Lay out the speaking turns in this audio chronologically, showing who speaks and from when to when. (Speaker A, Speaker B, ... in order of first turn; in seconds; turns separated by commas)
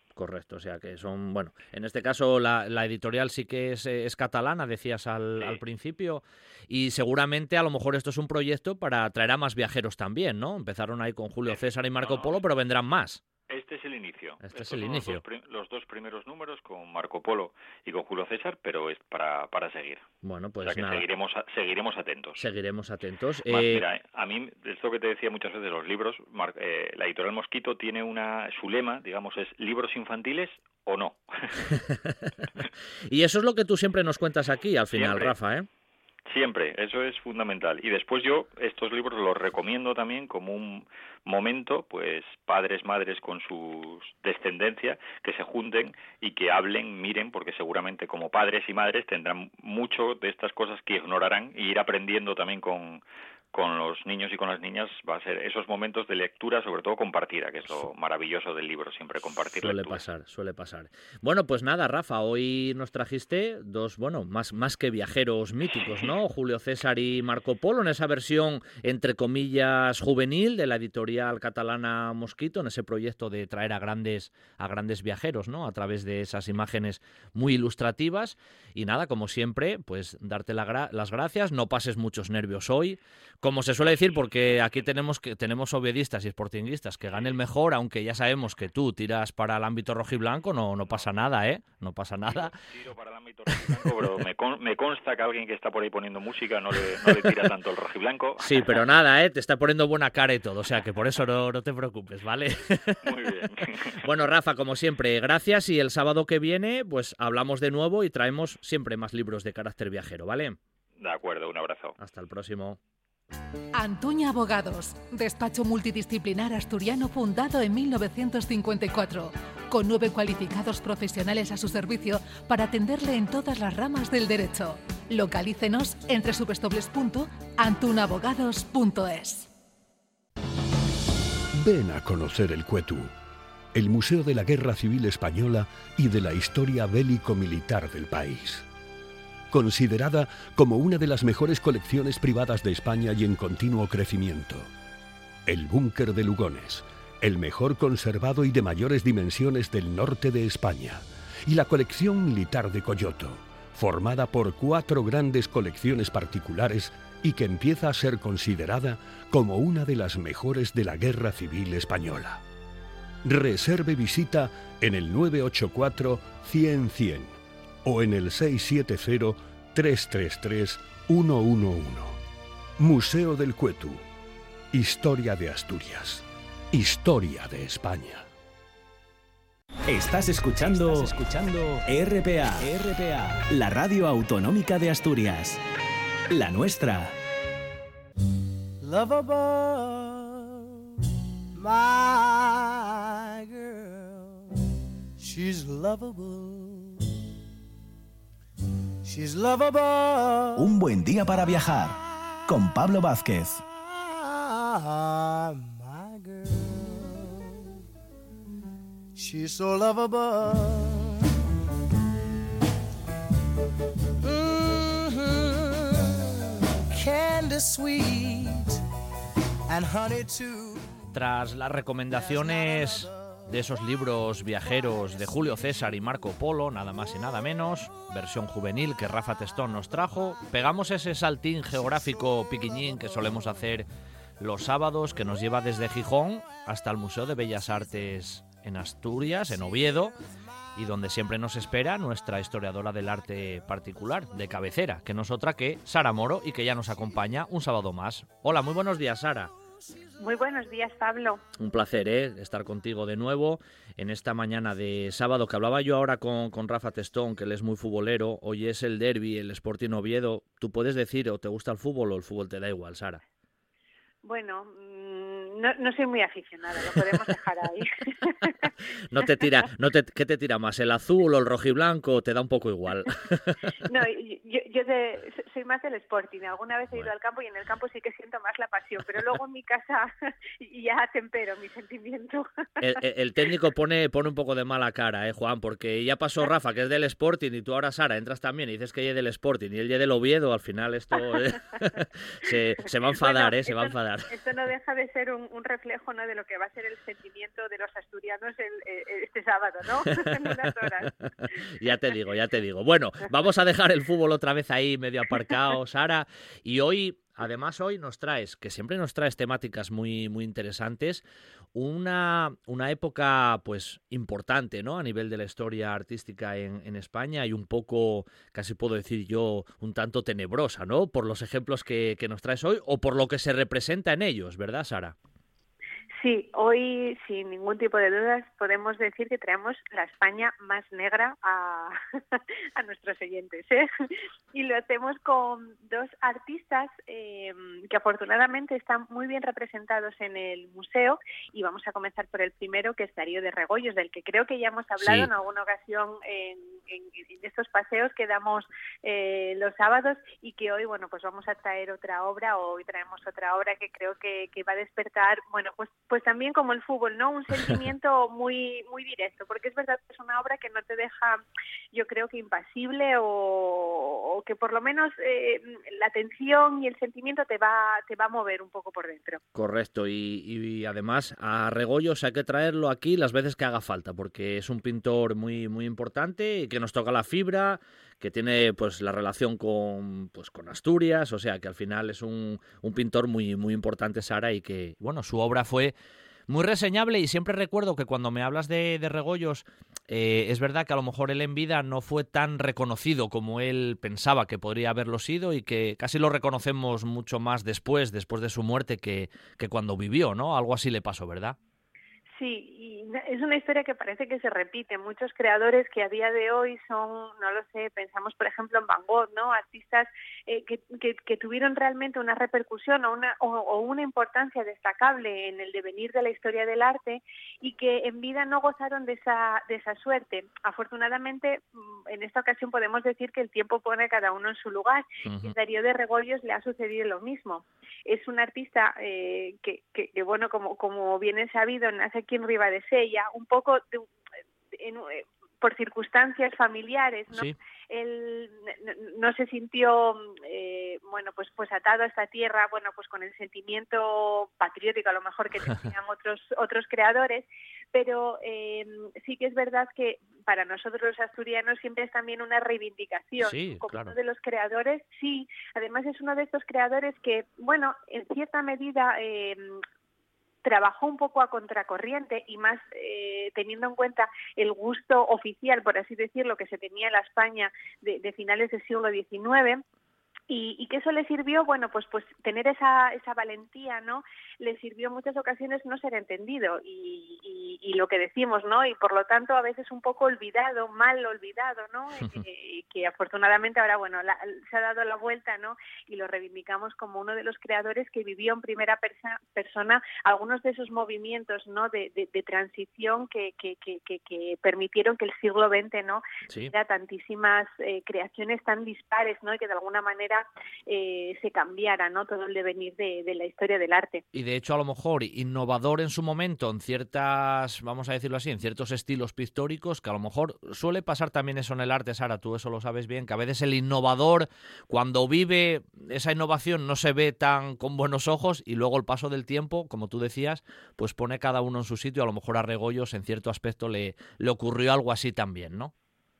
Speaker A: 0.2-13.2, Speaker B: 11.5-12.4, Speaker B: 13.5-20.1, Speaker A: 14.4-15.2, Speaker A: 20.2-21.1, Speaker B: 20.6-22.4, Speaker A: 22.4-23.8, Speaker B: 23.5-31.8, Speaker A: 31.7-32.4, Speaker A: 33.1-35.7, Speaker B: 35.0-35.4, Speaker B: 36.3-53.0, Speaker B: 53.5-60.0, Speaker A: 59.6-92.5, Speaker B: 92.3-98.8, Speaker A: 93.5-93.9, Speaker A: 97.0-97.5, Speaker A: 98.4-103.2, Speaker B: 103.0-104.0, Speaker A: 103.9-110.6, Speaker B: 111.0-112.0, Speaker A: 112.0-112.8, Speaker C: 113.8-129.5, Speaker D: 131.6-133.1, Speaker D: 133.7-138.7, Speaker D: 139.5-144.7, Speaker D: 145.5-162.4, Speaker D: 163.2-172.2, Speaker D: 172.8-174.0, Speaker D: 174.7-178.3, Speaker E: 179.9-185.6, Speaker E: 186.3-187.2, Speaker F: 188.8-190.6, Speaker F: 191.6-194.4, Speaker F: 195.2-197.0, Speaker F: 199.1-200.8, Speaker E: 200.6-201.9, Speaker E: 202.5-203.6, Speaker F: 204.2-207.6, Speaker F: 209.2-211.2, Speaker F: 214.2-216.3, Speaker F: 216.8-218.8, Speaker F: 219.7-220.9, Speaker A: 221.1-233.9, Speaker A: 234.4-240.2, Speaker A: 240.8-249.5, Speaker G: 250.2-251.4, Speaker A: 251.6-263.2, Speaker G: 264.2-269.3, Speaker A: 269.1-273.7, Speaker G: 273.8-282.8, Speaker A: 282.8-294.4, Speaker G: 293.2-301.2, Speaker A: 300.1-300.9, Speaker A: 301.5-325.2, Speaker G: 326.2-333.9, Speaker G: 334.5-361.4, Speaker A: 345.0-345.3, Speaker G: 361.9-369.4, Speaker A: 369.6-385.9, Speaker A: 386.5-401.6, Speaker G: 402.4-434.1, Speaker A: 425.2-425.5, Speaker G: 434.8-459.8, Speaker A: 453.4-454.1, Speaker G: 460.6-469.8, Speaker G: 470.5-504.2, Speaker A: 496.5-496.7, Speaker A: 504.3-525.9